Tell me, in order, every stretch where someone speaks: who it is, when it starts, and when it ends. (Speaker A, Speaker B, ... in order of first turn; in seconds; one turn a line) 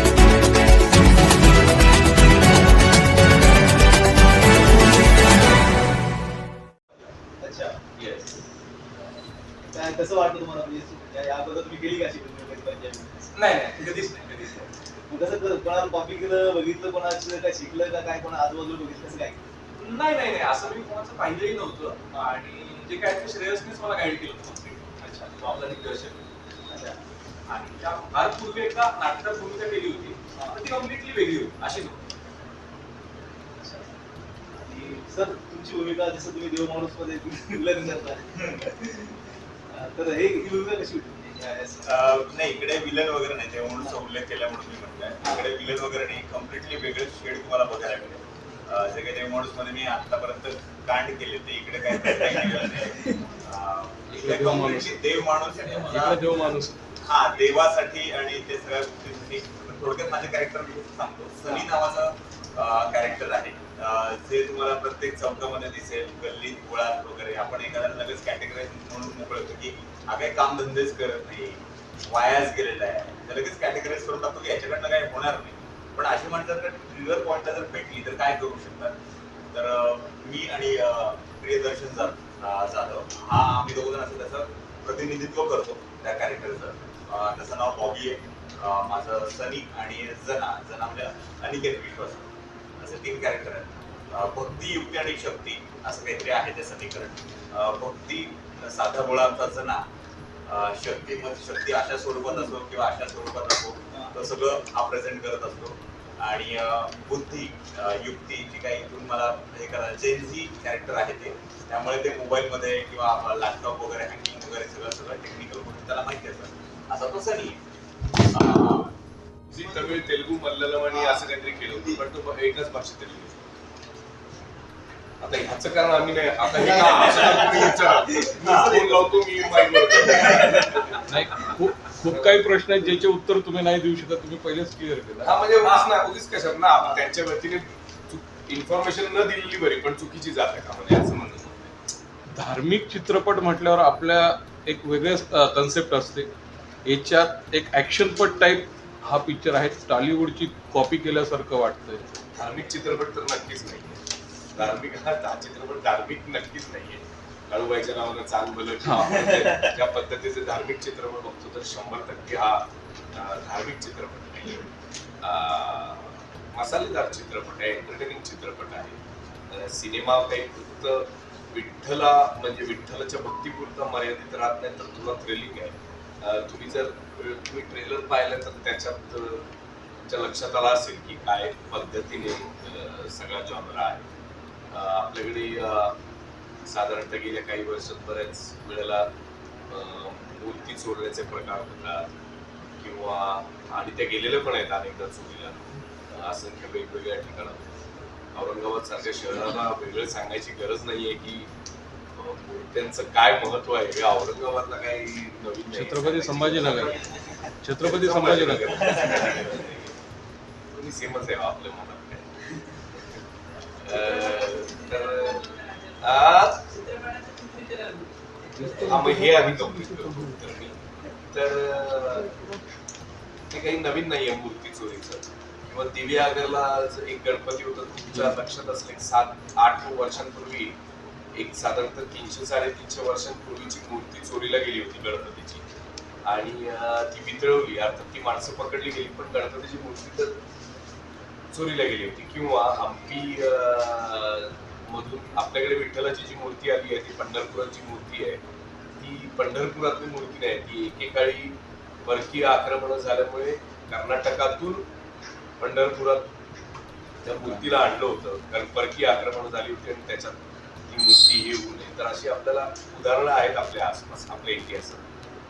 Speaker A: 7.4-7.8
Speaker B: 8.0-8.3
Speaker A: 9.7-13.3
Speaker C: 13.3-14.7
Speaker A: 15.1-19.4
Speaker C: 19.7-26.2
Speaker A: 26.7-27.0
Speaker C: 27.5-32.0
Speaker A: 30.4-30.6
Speaker A: 33.6-33.9
Speaker A: 34.5-39.1
Speaker A: 39.7-42.0
Speaker D: 41.8-56.2
Speaker E: 54.1-55.2
Speaker C: 55.7-55.9
Speaker E: 55.9-56.8
Speaker D: 57.0-79.0
Speaker D: 79.5-92.3
Speaker D: 92.8-99.8
Speaker D: 100.5-117.6
Speaker D: 118.3-118.9
Speaker B: 119.5-123.4
Speaker B: 125.2-132.4
Speaker D: 127.0-127.5
Speaker D: 128.4-129.1
Speaker E: 131.1-135.4
Speaker B: 135.2-141.7
Speaker E: 142.3-146.3
Speaker E: 146.8-152.1
Speaker B: 152.3-154.0
Speaker B: 154.6-164.7
Speaker E: 158.9-159.2
Speaker B: 165.2-179.5
Speaker B: 180.0-184.1
Speaker B: 184.7-186.0
Speaker B: 186.7-189.1
Speaker B: 189.7-192.1
Speaker B: 192.8-197.7
Speaker B: 198.3-201.5
Speaker B: 202.2-206.9
Speaker E: 205.7-207.0
Speaker E: 207.6-209.2
Speaker B: 207.8-209.9
Speaker B: 210.7-212.3
Speaker B: 213.8-215.5
Speaker B: 216.0-216.7
Speaker E: 218.6-220.2
Speaker B: 218.8-220.8
Speaker B: 221.3-222.4
Speaker B: 223.5-230.8
Speaker B: 231.3-235.6
Speaker B: 236.2-240.4
Speaker B: 241.5-248.4
Speaker B: 249.0-254.9
Speaker B: 255.6-256.3
Speaker B: 257.2-265.1